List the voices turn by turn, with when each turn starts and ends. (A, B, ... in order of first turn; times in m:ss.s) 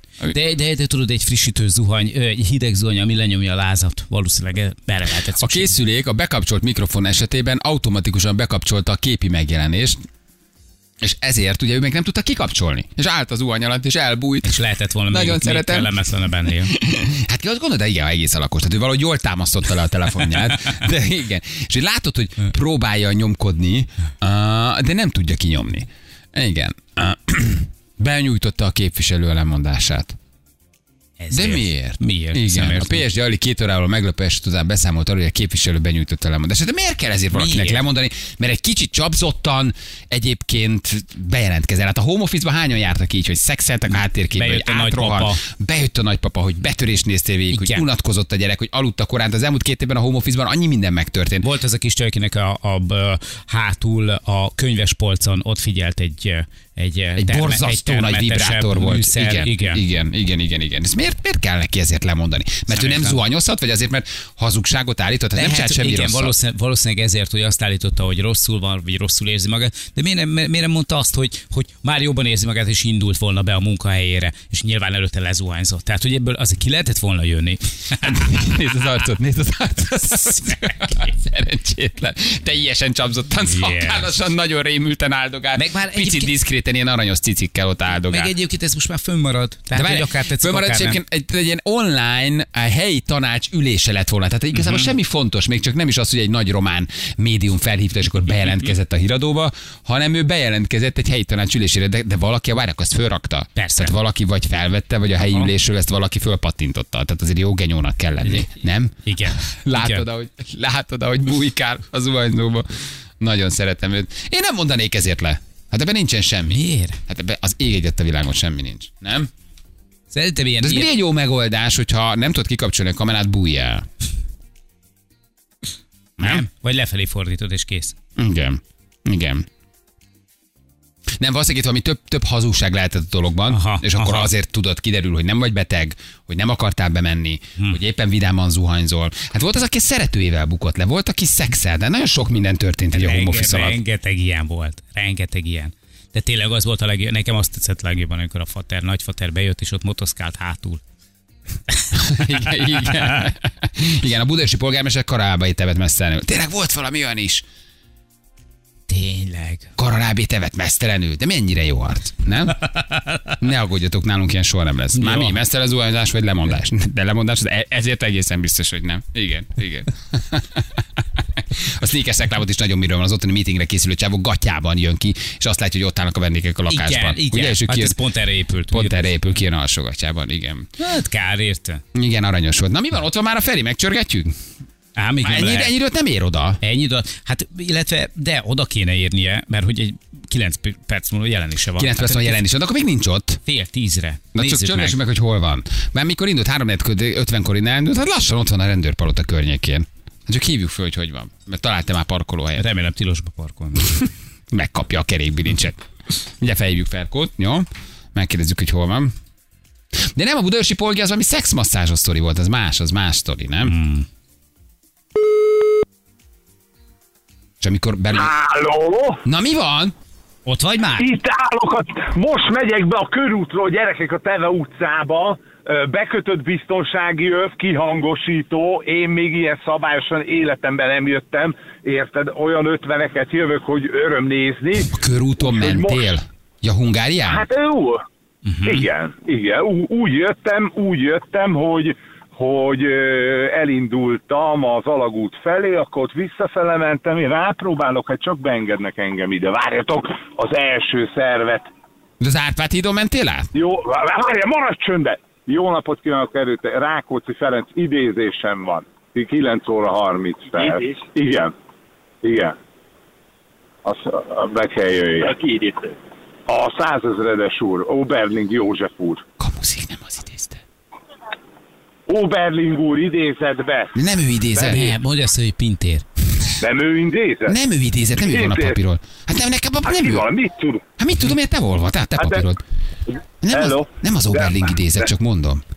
0:00.3-0:05.7 A
0:05.4-0:10.0 B
0:11.0-0:15.9 B
0:14.4-0:16.8 A
0:16.7-0:30.1 B
0:31.2-0:33.0 A
0:31.3-0:51.4 B
0:37.3-0:37.8 A
0:44.3-0:45.4 A
0:47.5-0:47.8 A
0:51.4-0:59.8 A
0:57.2-1:06.3 B
1:02.8-1:03.2 A
1:05.3-1:18.6 A
1:18.1-1:28.3 B
1:20.2-1:20.9 A
1:23.5-1:24.1 A
1:25.5-1:26.4 A
1:28.1-1:31.0 A
1:29.7-1:52.7 B
1:34.5-1:34.9 A
1:43.6-1:43.9 A
1:45.2-1:45.5 A
1:49.1-1:50.0 A
1:53.2-1:59.3 B
1:56.5-1:57.0 A
2:00.1-2:00.9 A
2:00.6-2:03.8 B
2:06.2-2:06.4 B
2:06.2-2:08.0 A
2:08.2-2:09.4 B
2:11.2-2:23.8 B
2:13.5-2:14.3 A
2:22.9-2:30.8 A
2:31.9-2:37.4 B
2:38.9-2:39.7 A
2:39.8-2:42.6 B
2:42.9-2:43.2 A
2:43.4-2:58.0 B
2:45.0-2:45.4 A
2:56.7-2:59.0 A
2:58.7-3:00.7 B
3:00.8-3:01.8 A
3:01.9-3:04.3 B
3:05.0-3:05.7 A
3:05.2-3:06.6 B
3:06.6-3:12.4 A
3:11.8-3:13.4 B
3:13.4-3:15.0 A
3:14.4-3:22.7 B
3:22.6-3:24.0 A
3:24.5-3:25.8 B
3:26.4-3:29.1 B
3:30.0-3:33.8 B
3:33.6-3:34.0 A
3:37.6-3:38.3 B
3:38.1-3:39.2 C
3:39.2-3:39.9 B
3:40.4-3:41.1 A
3:41.0-3:54.9 C
3:54.9-3:57.5 B
3:55.4-3:56.1 C
3:57.2-3:58.0 C
3:58.4-3:58.9 A
3:58.6-4:11.7 C
4:12.2-4:13.5 B
4:13.5-4:21.5 C
4:22.2-4:22.6 C
4:23.8-4:25.6 C
4:26.5-4:29.2 C
4:29.4-4:30.6 B
4:32.1-4:33.9 C
4:33.9-4:34.9 B
4:34.7-4:36.0 A
4:36.6-4:37.6 C
4:37.5-4:40.2 B
4:38.2-4:38.8 C
4:39.8-4:40.8 C
4:41.0-4:42.6 B
4:42.2-4:42.4 C
4:43.1-4:44.6 C
4:43.4-4:45.6 B